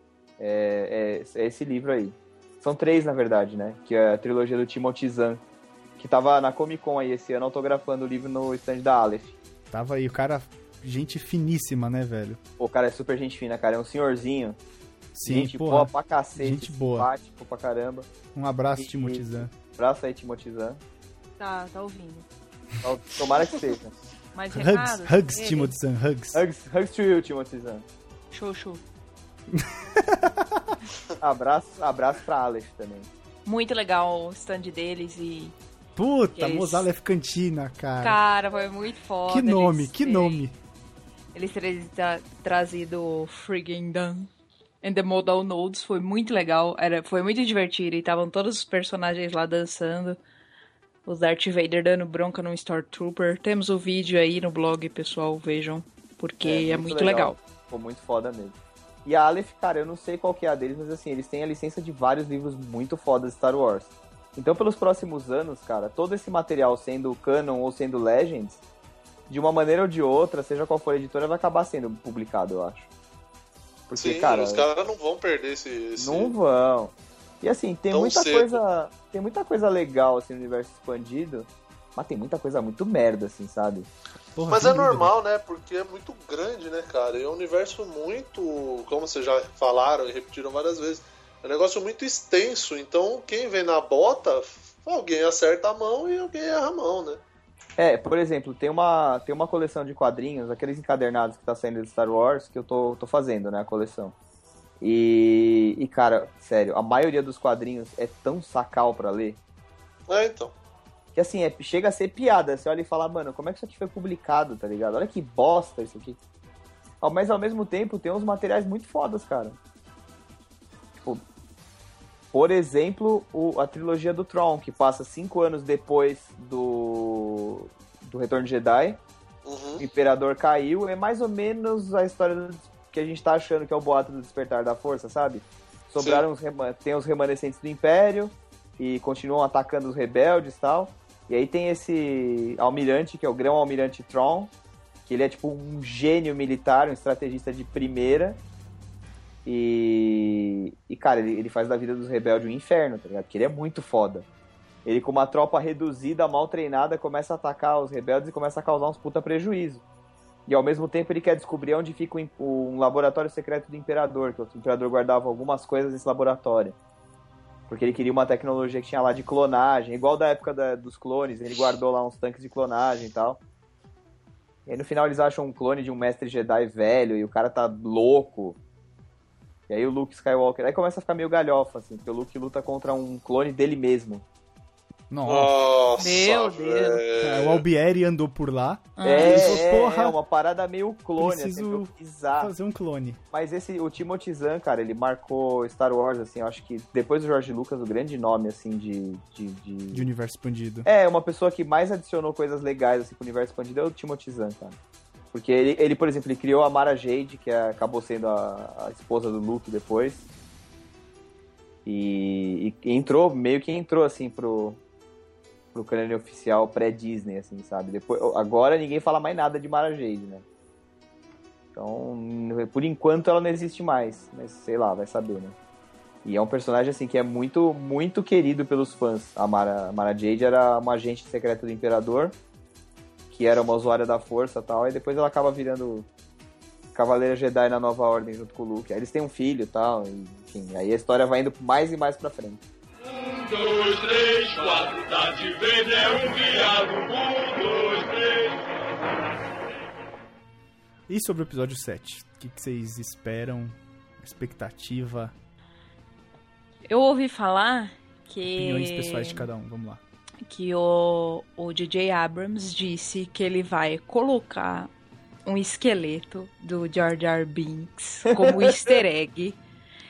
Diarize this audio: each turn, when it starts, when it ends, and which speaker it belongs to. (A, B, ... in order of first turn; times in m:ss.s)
0:00.4-0:05.4 A
0:06.0-0:09.4 A
0:09.7-0:12.4 B
0:12.6-0:14.6 A
0:15.1-0:17.1 B
0:15.2-0:18.1 A
0:18.3-0:19.5 B
0:18.8-0:20.8 A
0:21.4-0:22.3 C
0:22.8-0:23.9 A
0:24.3-0:25.7 C
0:24.5-0:26.4 B
0:26.3-0:27.8 A
0:28.3-0:28.8 C
0:29.5-0:30.8 B
0:31.2-0:33.1 A
0:33.4-0:35.6 C
0:36.0-0:38.2 B
0:36.4-0:36.9 C
0:38.0-0:40.4 C
0:39.3-0:40.6 B
0:41.3-0:44.3 C
0:44.8-0:50.2 C
0:51.1-0:57.4 C
0:56.4-1:08.6 A
1:09.3-1:12.9 A
1:13.9-1:14.7 A
1:14.0-1:16.3 D
1:16.0-1:23.9 A
1:17.9-1:18.6 D
1:24.4-1:25.1 B
1:24.5-1:37.2 D
1:37.8-1:44.2 A
1:44.8-1:49.4 A
1:50.1-1:50.5 D
1:51.2-1:56.2 A
1:57.0-1:59.6 A
2:02.3-2:09.0 A
2:09.5-2:09.8 D
2:09.8-2:24.5 A
2:25.1-2:28.4 A
2:29.5-2:34.3 A
2:34.8-2:39.8 A
2:40.5-2:46.8 A
2:47.7-2:53.4 A
2:54.7-2:58.6 A
2:59.7-3:04.2 A
3:05.1-3:05.5 B
3:05.3-3:07.6 D
3:06.0-3:07.0 C
3:07.2-3:10.2 B
3:09.0-3:09.6 C
3:09.0-3:12.5 A
3:11.2-3:13.2 B
3:13.3-3:20.1 A
3:19.9-3:20.9 B
3:20.8-3:24.8 A
3:25.3-3:30.2 A
3:31.9-3:34.8 A
3:35.7-3:40.4 A
3:41.8-3:45.6 A
3:46.2-3:52.4 A
3:53.3-3:56.1 A
3:56.9-4:02.6 A
4:03.0-4:09.1 E
4:11.1-4:15.3 B
4:16.9-4:19.5 C
4:18.5-4:20.0 B
4:20.5-4:24.9 C
4:25.4-4:29.6 C
4:28.3-4:28.8 A